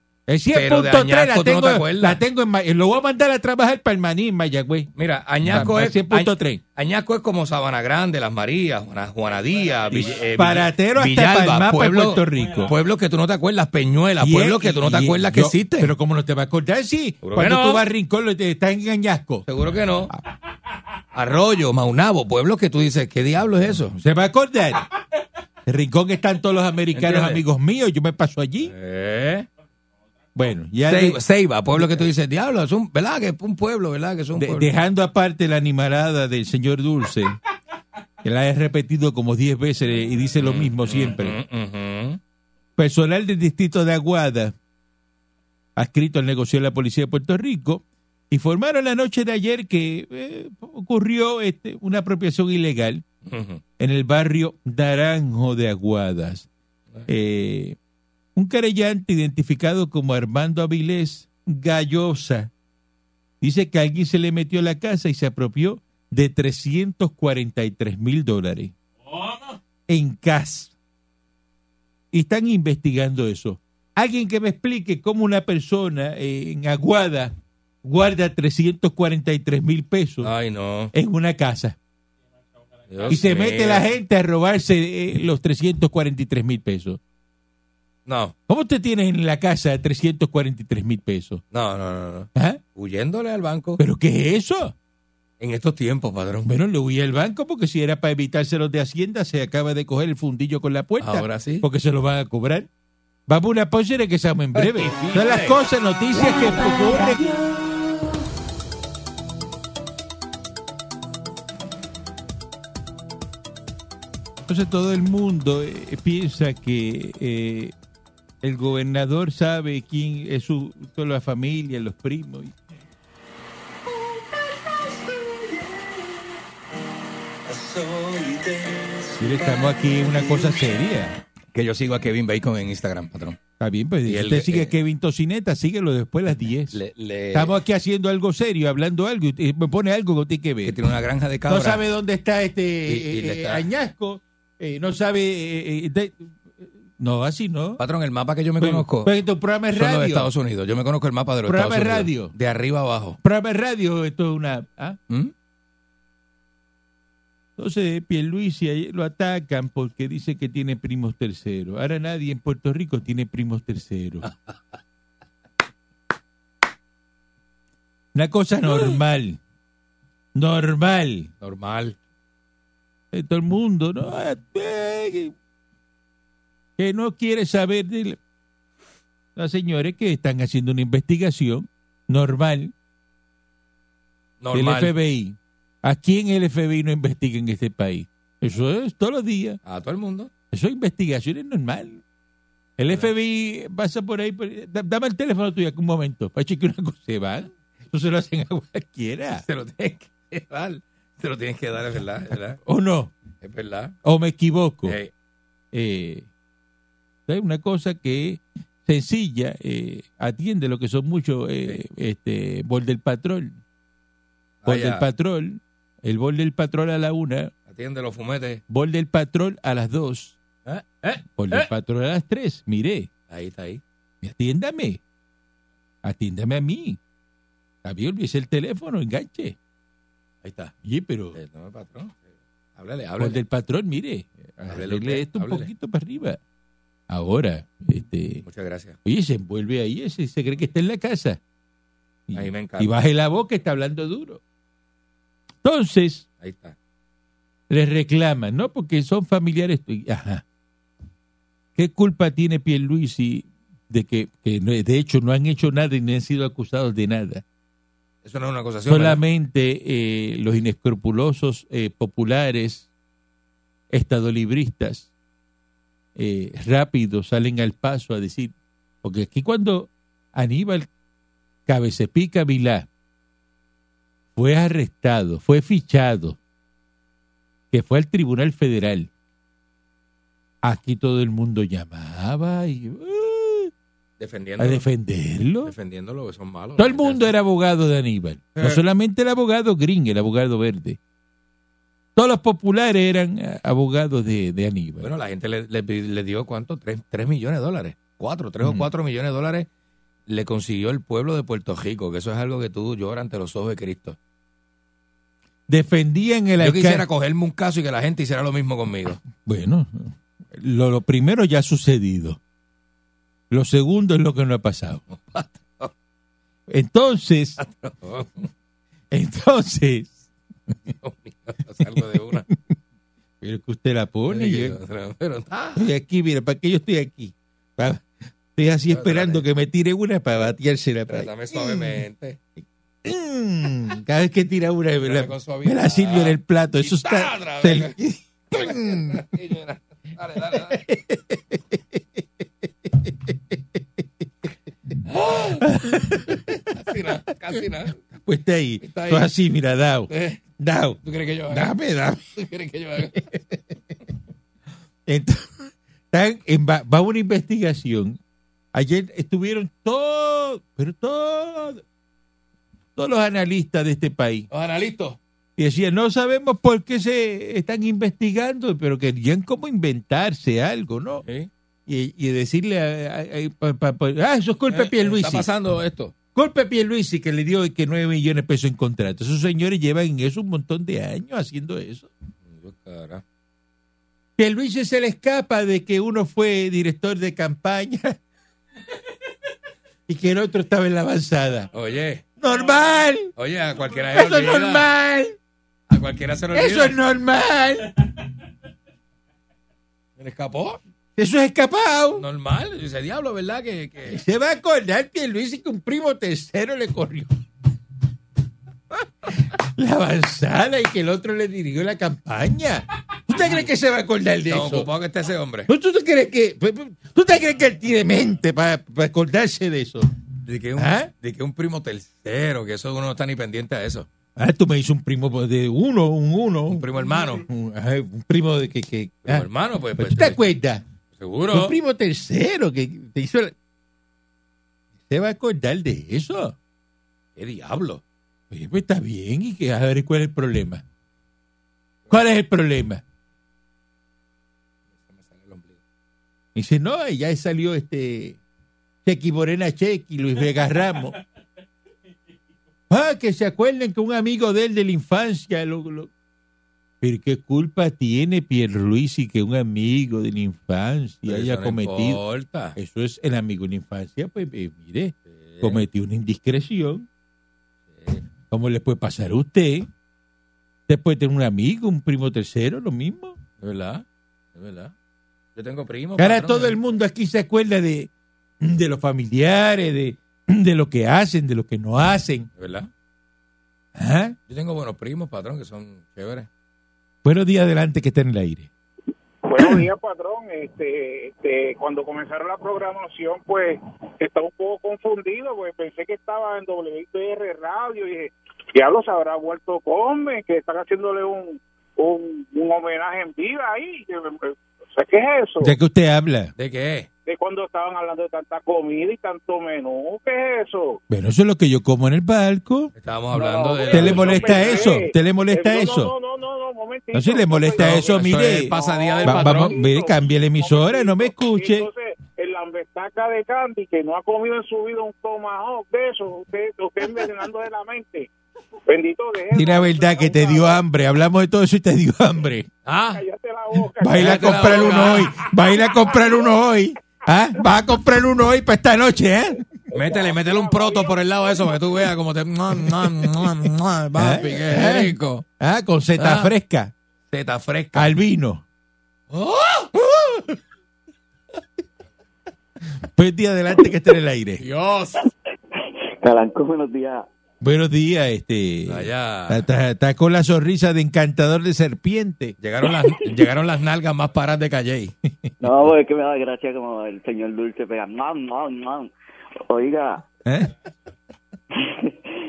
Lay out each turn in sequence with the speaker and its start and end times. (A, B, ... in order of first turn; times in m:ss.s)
0:00.3-0:04.9 A
0:00.5-0:02.2 B
0:04.9-0:15.9 B
0:05.4-0:06.6 A
0:09.9-0:12.7 A
0:14.2-0:19.4 A
0:17.2-0:17.8 B
0:19.4-0:20.1 B
0:21.1-0:24.0 B
0:23.9-0:24.9 A
0:25.7-0:28.7 A
0:26.9-0:27.4 B
0:28.6-0:29.5 B
0:30.3-0:31.2 A
0:30.9-0:34.7 B
0:31.7-0:32.1 A
0:34.4-0:37.4 A
0:38.2-0:41.4 A
0:40.4-0:42.2 B
0:42.8-0:44.5 A
0:45.8-0:53.0 A
0:53.2-0:53.6 B
0:53.8-0:56.5 A
0:57.1-0:57.8 A
0:58.4-1:02.5 A
1:03.4-1:08.7 A
1:09.9-1:10.7 A
1:12.1-1:20.3 A
1:20.2-1:20.9 B
1:20.9-1:21.8 A
1:22.9-1:23.9 B
1:23.1-1:27.0 A
1:28.0-1:28.3 B
1:28.5-1:31.4 A
1:31.5-1:33.8 B
1:32.3-1:32.6 A
1:33.8-1:34.7 A
1:35.4-1:36.5 B
1:36.4-1:42.7 A
1:41.0-1:41.6 B
1:43.3-1:47.2 A
1:44.5-1:45.6 B
1:54.5-1:57.7 A
1:58.4-2:02.5 A
2:07.5-2:09.7 B
2:09.1-2:11.2 A
2:11.5-2:13.4 B
2:13.6-2:16.8 A
2:14.0-2:14.7 B
2:16.7-2:17.6 B
2:17.3-2:20.8 A
2:20.6-2:21.8 B
2:21.5-2:27.8 A
2:22.9-2:23.7 B
2:27.8-2:29.1 B
2:28.6-2:30.3 A
2:29.7-2:33.2 B
2:31.4-2:32.3 A
2:33.2-2:35.0 A
2:37.6-2:44.3 A
2:44.2-2:44.6 B
2:48.1-2:49.4 A
2:50.3-2:51.3 A
2:51.4-2:52.0 B
2:53.1-2:55.3 A
2:56.8-2:58.2 A
2:59.4-3:02.7 A
3:04.4-3:04.9 B
3:04.5-3:09.6 A
3:09.6-3:10.3 B
3:10.5-3:12.0 A
3:12.8-3:19.4 A
3:19.4-3:22.6 B
3:22.6-3:23.1 A
3:23.4-3:24.0 B
3:24.0-3:25.0 A
3:24.8-3:25.1 B
3:25.7-3:26.3 A
3:27.3-3:33.6 A
3:34.6-3:35.0 B
3:34.6-3:37.5 A
3:37.7-3:38.6 B
3:38.7-3:40.4 A
3:40.6-3:41.7 B
3:41.4-3:43.1 A
3:43.3-3:43.8 B
3:44.2-3:45.0 A
3:46.0-3:47.0 A
3:47.8-3:49.6 A
3:50.4-3:50.7 B
3:50.8-3:51.4 A
3:51.3-3:52.2 B
3:52.8-3:53.4 B
3:53.2-3:56.4 A
3:54.6-3:55.7 B
3:57.1-3:58.4 A
3:58.4-3:59.0 B
3:59.0-4:01.4 A
4:02.3-4:04.4 A
4:02.3-4:02.9 B
4:05.6-4:06.2 A
4:06.4-4:06.7 B
4:07.7-4:10.4 A
4:11.7-4:17.4 A
4:18.2-4:19.2 B
4:18.9-4:22.9 A
4:23.9-4:25.1 A
4:26.2-4:30.9 A
4:31.7-4:32.9 A
4:34.4-4:36.4 A
4:37.7-4:39.1 A
4:40.6-4:43.7 A
4:44.2-4:44.8 B
4:44.6-4:45.7 A
4:45.6-4:47.3 B
4:46.8-4:51.0 A
4:48.6-4:48.8 B
4:52.2-4:55.1 A
4:55.0-4:59.7 B
5:00.3-5:04.2 B
5:05.7-5:07.0 A
5:06.6-5:09.2 B
5:09.4-5:12.4 A
5:13.5-5:15.0 A
5:15.1-5:15.9 B
5:16.7-5:17.6 A
5:17.6-5:18.5 B
5:19.1-5:20.2 A
5:21.0-5:22.4 B
5:23.4-5:24.8 A
5:24.3-5:25.9 B
5:25.8-5:32.0 A
5:28.9-5:29.4 B
5:31.1-5:32.4 B
5:33.0-5:39.2 A
5:35.0-5:38.0 B
5:38.5-5:40.9 B
5:40.7-5:42.2 A
5:42.9-5:43.6 A
5:45.0-5:45.7 B
5:45.6-5:46.6 A
5:46.3-5:48.0 B
5:48.2-5:52.3 A
5:48.8-5:49.3 B
5:50.1-5:50.4 B
5:51.0-5:51.7 B
5:52.3-5:53.3 B
5:55.1-5:58.2 A
5:58.7-6:01.8 A
6:03.0-6:04.5 A
6:04.5-6:05.2 B
6:05.6-6:11.2 A
6:11.2-6:11.5 B
6:11.9-6:15.5 A
6:14.7-6:16.1 B
6:16.3-6:22.1 A
6:22.4-6:23.2 B
6:24.4-6:28.2 A
6:30.1-6:31.7 A
6:31.7-6:32.2 B
6:32.4-6:33.3 A
6:33.3-6:34.9 B
6:34.1-6:35.4 A
6:35.9-6:37.0 B
6:36.5-6:37.9 A
6:40.2-6:40.8 B
6:41.2-6:42.2 A
6:42.2-6:44.2 B
6:44.0-6:47.3 A
6:49.4-6:54.9 A
6:54.5-6:55.7 B
6:55.7-7:00.1 A
7:00.4-7:04.1 B
7:00.8-7:01.1 A
7:04.4-7:10.8 A
7:06.7-7:07.4 B
7:09.2-7:10.4 B
7:11.1-7:11.7 B
7:11.5-7:13.5 A
7:15.1-7:16.5 A
7:17.4-7:18.0 B
7:18.5-7:20.8 A
7:22.1-7:23.0 A
7:25.0-7:25.8 B
7:26.5-7:28.4 A
7:29.0-7:31.1 A
7:32.9-7:36.1 A
7:37.0-7:42.2 A
7:41.2-7:42.8 B
7:42.8-7:47.1 A
7:45.3-7:45.8 B
7:47.9-7:48.2 B
7:48.5-7:49.9 A
7:50.9-7:53.4 A
7:53.6-7:54.0 B
7:54.5-7:54.9 B
7:55.5-7:56.8 B
7:56.2-7:58.1 A
7:58.6-8:02.5 A
8:02.6-8:02.9 B
8:04.0-8:04.4 A
8:04.5-8:06.5 B
8:07.2-8:08.7 A
8:09.4-8:25.7 C
8:25.6-8:26.5 A
8:26.6-8:27.1 B
8:27.2-8:31.0 C
8:31.1-8:32.9 A
8:33.0-8:34.9 B
8:33.3-8:48.3 C
8:33.9-8:36.1 A
8:37.1-8:41.9 A
8:37.8-8:39.8 B
8:48.9-8:50.8 C
8:49.5-8:52.7 A
8:52.8-8:53.2 B
8:53.1-8:56.5 C
8:54.0-8:59.6 A
8:54.1-8:55.4 B
8:59.9-9:01.7 C
8:59.9-9:05.4 B
9:04.2-9:06.9 A
9:06.2-9:06.5 B
9:07.3-9:08.1 B
9:07.9-9:08.6 A
9:09.3-9:10.4 B
9:13.1-9:14.6 A
9:14.6-9:15.3 B
9:16.2-9:17.3 D
9:17.6-9:22.6 A
9:18.9-9:19.6 B
9:22.6-9:25.1 B
9:25.6-9:29.1 D
9:29.7-9:30.2 D
9:30.4-9:30.7 A
9:31.8-9:32.1 D